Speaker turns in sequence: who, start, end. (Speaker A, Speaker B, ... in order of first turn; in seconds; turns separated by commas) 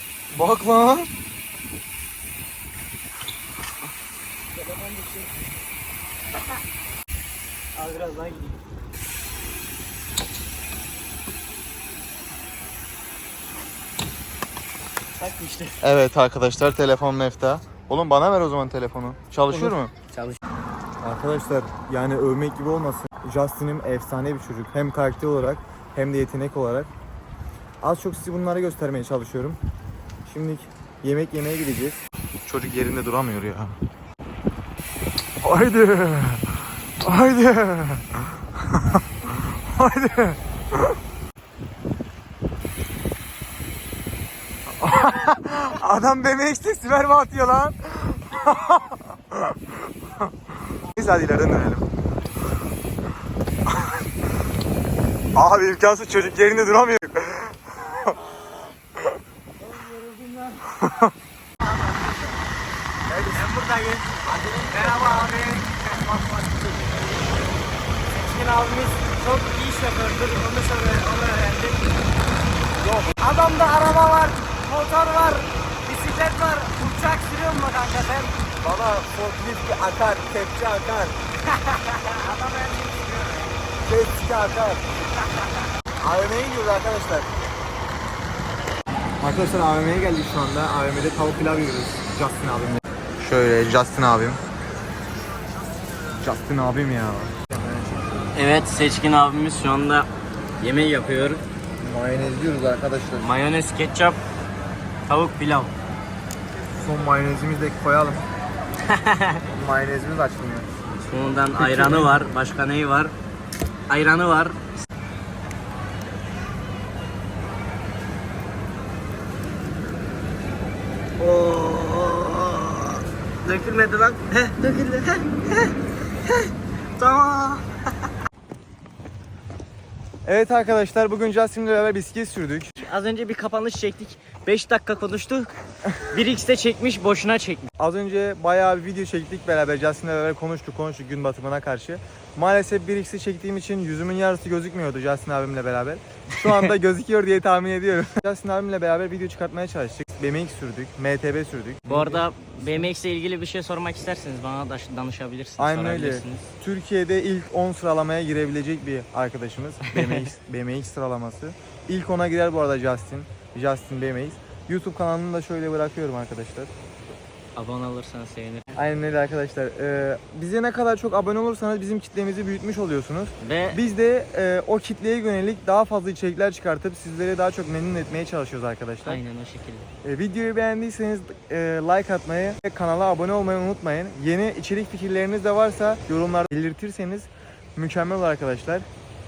Speaker A: 0.3-1.1, Speaker B: 4.5-5.6, Speaker B: 7.8-8.6, Speaker B: 15.2-15.8, Speaker A: 15.8-19.9, Speaker B: 19.5-20.4, Speaker A: 21.0-26.9, Speaker A: 27.8-29.6, Speaker A: 30.3-33.8, Speaker A: 35.4-36.5, Speaker A: 37.0-40.8, Speaker A: 44.8-49.6, Speaker A: 50.2-51.9, Speaker A: 55.4-58.1, Speaker B: 59.6-60.8, Speaker A: 60.7-61.1, Speaker B: 61.6-62.4, Speaker A: 63.1-63.5, Speaker B: 63.3-66.8, Speaker A: 64.7-65.1, Speaker B: 68.1-72.0, Speaker A: 72.8-73.2, Speaker B: 73.0-78.3, Speaker A: 78.6-81.2, Speaker B: 81.5-83.6, Speaker A: 83.8-84.8, Speaker A: 86.0-87.3, Speaker A: 89.2-94.4, Speaker A: 96.2-98.3, Speaker B: 98.3-100.1, Speaker B: 100.6-101.4, Speaker A: 101.8-103.3, Speaker B: 103.2-104.2, Speaker B: 105.1-105.7, Speaker A: 106.7-108.3, Speaker B: 108.8-109.5, Speaker A: 109.5-110.7, Speaker B: 111.0-113.1, Speaker A: 111.6-112.2, Speaker B: 113.9-114.6, Speaker B: 121.2-128.1, Speaker A: 130.2-132.8, Speaker B: 132.8-137.7, Speaker A: 137.8-152.8, Speaker B: 146.4-146.7, Speaker B: 151.9-156.5, Speaker A: 155.6-166.7, Speaker B: 159.9-160.3, Speaker B: 167.6-168.8, Speaker A: 168.8-179.2, Speaker B: 173.4-173.8, Speaker B: 179.1-179.9, Speaker A: 180.0-188.9